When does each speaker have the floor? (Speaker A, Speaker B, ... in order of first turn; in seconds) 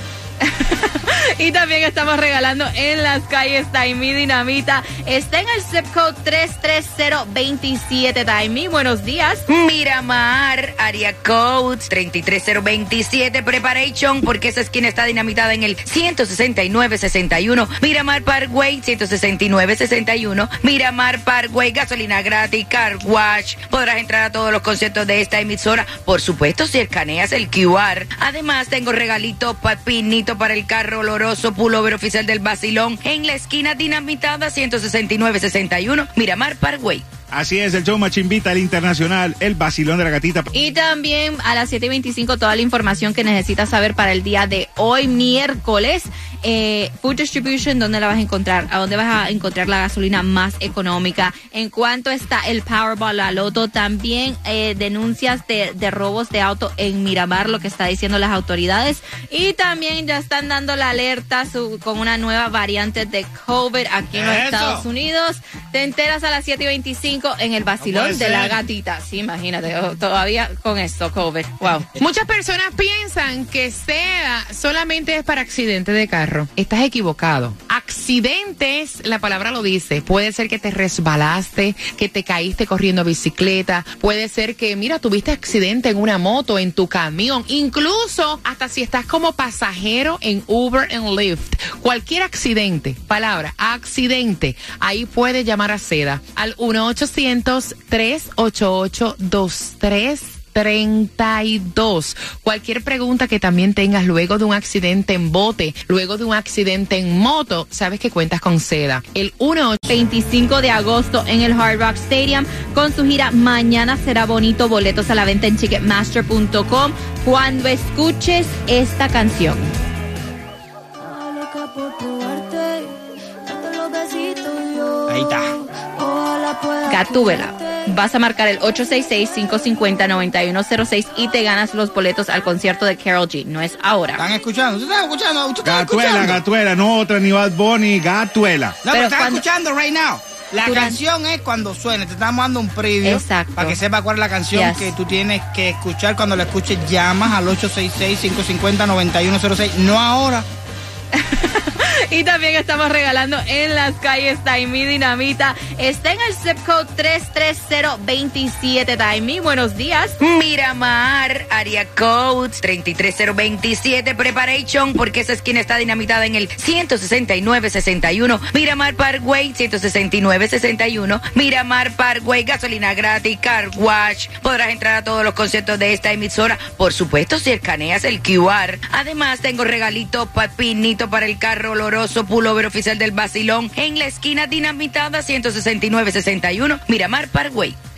Speaker A: 0.4-9.4, 40.5-71.9, 109.9-119.7, 126.9-134.2, 138.9-139.4, 140.6-141.0, 143.0-143.8, 144.5-144.9, 151.1-160.2
Speaker B: 9.5-37.0, 160.2-187.8
Speaker C: 37.3-40.5, 135.6-138.8
Speaker D: 64.1-64.8, 67.8-68.6, 125.1-125.5, 134.2-136.4, 138.8-150.4
Speaker E: 72.0-109.9
Speaker F: 121.0-127.9